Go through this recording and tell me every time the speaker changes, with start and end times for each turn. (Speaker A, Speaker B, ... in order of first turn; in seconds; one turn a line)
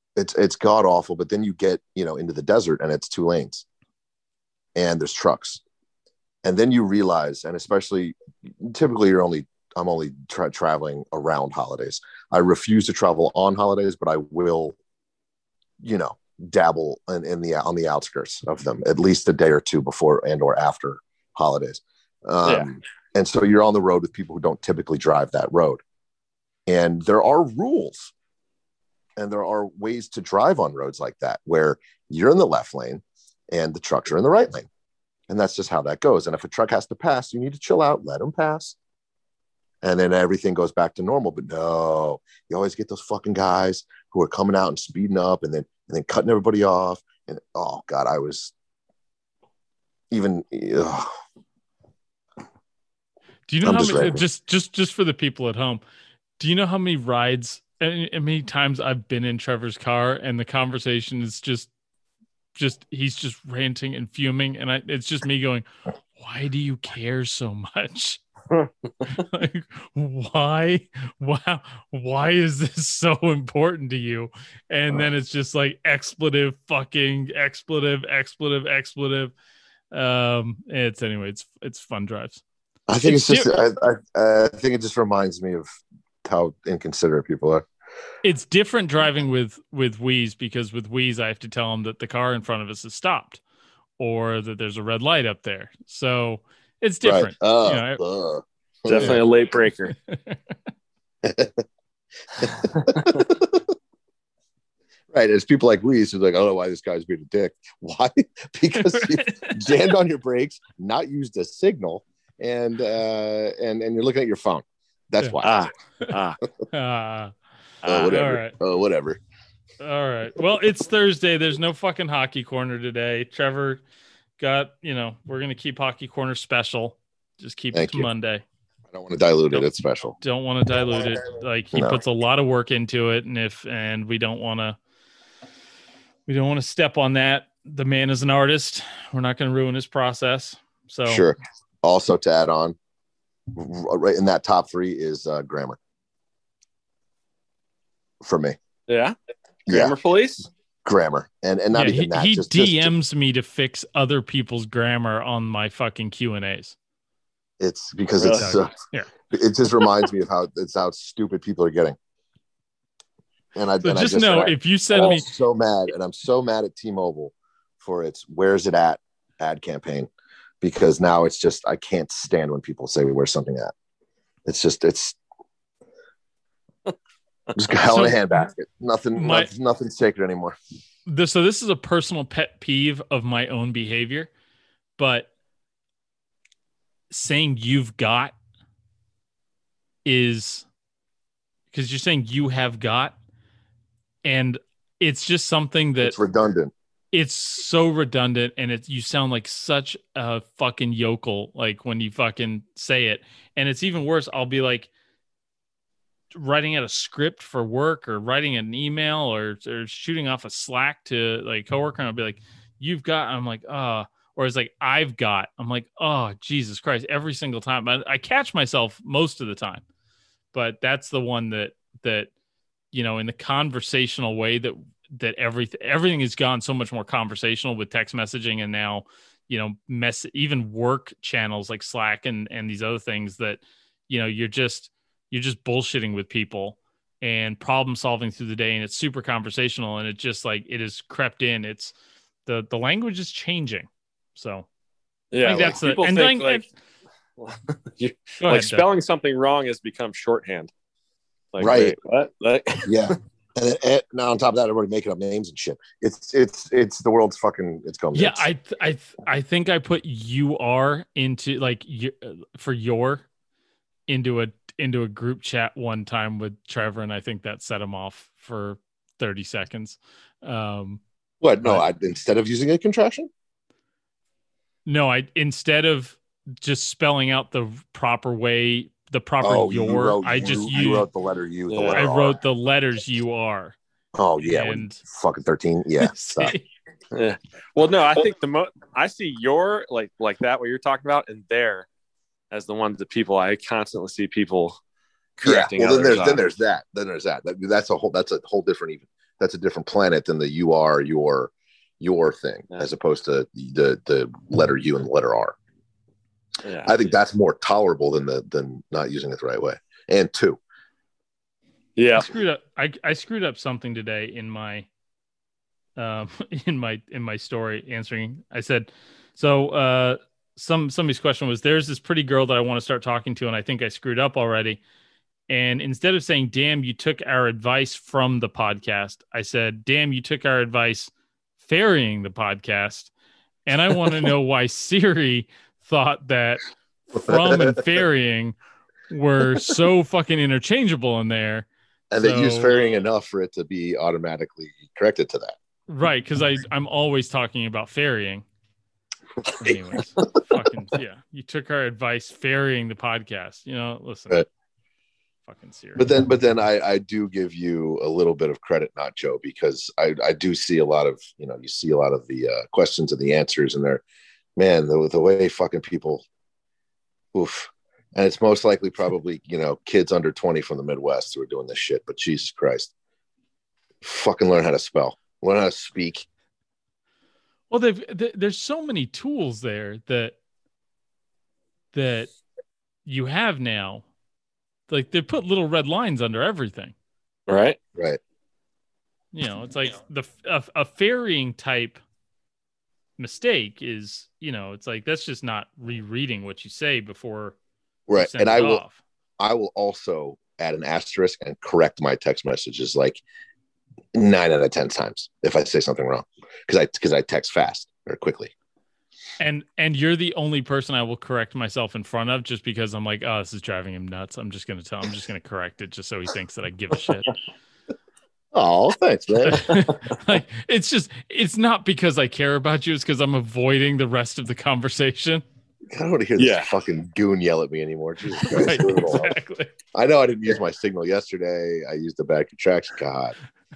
Speaker A: 0.2-3.6
Speaker A: 4.8-5.6
Speaker A: 6.4-14.8
Speaker A: 15.8-25.8
Speaker B: 22.4-22.7
Speaker A: 26.7-28.1
Speaker A: 29.2-34.7
Speaker A: 35.3-38.8
Speaker A: 39.8-48.5
Speaker A: 50.1-51.1
Speaker C: 53.5-55.8
Speaker A: 53.6-54.2
Speaker C: 56.4-61.7
Speaker C: 62.5-65.7
Speaker C: 66.2-68.2
Speaker C: 69.1-79.3
Speaker C: 79.9-82.4
Speaker A: 82.9-87.7
Speaker C: 83.0-83.5
Speaker C: 88.2-93.4
Speaker C: 94.0-98.0
Speaker A: 97.0-99.2
Speaker B: 98.9-100.0
Speaker C: 100.1-100.4
Speaker A: 101.2-101.6
Speaker A: 102.4-103.7
Speaker B: 102.7-103.2
Speaker A: 105.1-115.7
Speaker C: 108.8-109.9
Speaker B: 115.4-116.4
Speaker C: 116.7-117.3
Speaker A: 117.8-119.2
Speaker B: 117.8-118.2
Speaker C: 118.0-118.5
Speaker C: 119.8-123.8
Speaker C: 124.4-128.4
Speaker A: 127.7-128.1
Speaker A: 128.9-130.2
Speaker C: 130.2-134.8
Speaker A: 131.7-132.0
Speaker C: 136.3-141.2
Speaker A: 141.1-142.8
Speaker A: 143.5-145.8
Speaker A: 148.2-148.6
Speaker B: 148.9-149.2
Speaker A: 149.7-149.9
Speaker B: 149.7-150.5
Speaker A: 150.8-152.9
Speaker C: 151.7-156.8
Speaker A: 157.6-158.7
Speaker B: 158.2-158.5
Speaker C: 158.4-159.1
Speaker A: 159.3-162.0
Speaker A: 163.6-170.1
Speaker C: 163.8-165.3
Speaker A: 170.6-173.7
Speaker A: 174.4-175.2
Speaker A: 177.6-180.6
Speaker C: 177.8-178.5
Speaker C: 179.2-179.5
Speaker C: 181.1-184.3
Speaker C: 185.0-185.3
Speaker C: 187.1-188.3
Speaker C: 190.1-190.7
Speaker C: 191.7-193.2
Speaker C: 194.2-196.2
Speaker A: 196.0-196.7
Speaker C: 197.1-204.9
Speaker C: 206.3-219.8
Speaker C: 220.5-222.3
Speaker C: 222.9-241.9
Speaker C: 242.5-244.7
Speaker B: 245.3-246.7
Speaker C: 245.4-246.7
Speaker B: 247.4-250.7
Speaker C: 248.4-248.9
Speaker B: 251.5-253.2
Speaker A: 251.6-252.0
Speaker A: 252.8-258.5
Speaker C: 258.1-263.3
Speaker C: 264.1-271.0
Speaker A: 271.4-273.3
Speaker C: 274.9-281.1
Speaker A: 279.4-282.4
Speaker B: 281.7-282.0
Speaker C: 281.9-283.8
Speaker A: 284.1-286.6
Speaker C: 284.4-285.0
Speaker C: 286.0-286.6
Speaker B: 287.1-291.9
Speaker B: 292.5-294.8
Speaker B: 295.4-296.4
Speaker A: 295.4-305.6
Speaker B: 306.6-307.1
Speaker A: 306.8-310.6
Speaker B: 312.0-312.3
Speaker C: 312.2-314.9
Speaker C: 316.0-324.8
Speaker C: 325.5-331.1
Speaker C: 331.6-333.1
Speaker C: 333.7-338.6
Speaker A: 337.2-337.8
Speaker C: 339.1-342.8
Speaker A: 342.1-345.6
Speaker C: 345.9-348.4
Speaker C: 349.6-354.5
Speaker C: 355.5-356.1
Speaker A: 356.0-364.0
Speaker A: 364.6-366.2
Speaker A: 367.3-372.9
Speaker A: 374.0-376.3
Speaker C: 377.7-380.4
Speaker C: 381.9-382.3
Speaker C: 383.1-384.1
Speaker C: 384.9-386.9
Speaker B: 387.5-387.8
Speaker A: 387.9-388.2
Speaker C: 389.3-392.0
Speaker C: 393.2-397.6
Speaker A: 398.1-398.8
Speaker C: 398.1-399.0
Speaker A: 399.4-403.2
Speaker A: 404.1-408.5
Speaker C: 409.4-417.3
Speaker A: 418.5-419.8
Speaker C: 419.4-425.4
Speaker A: 425.9-429.4
Speaker B: 426.4-426.7
Speaker C: 428.4-429.7
Speaker A: 429.9-433.4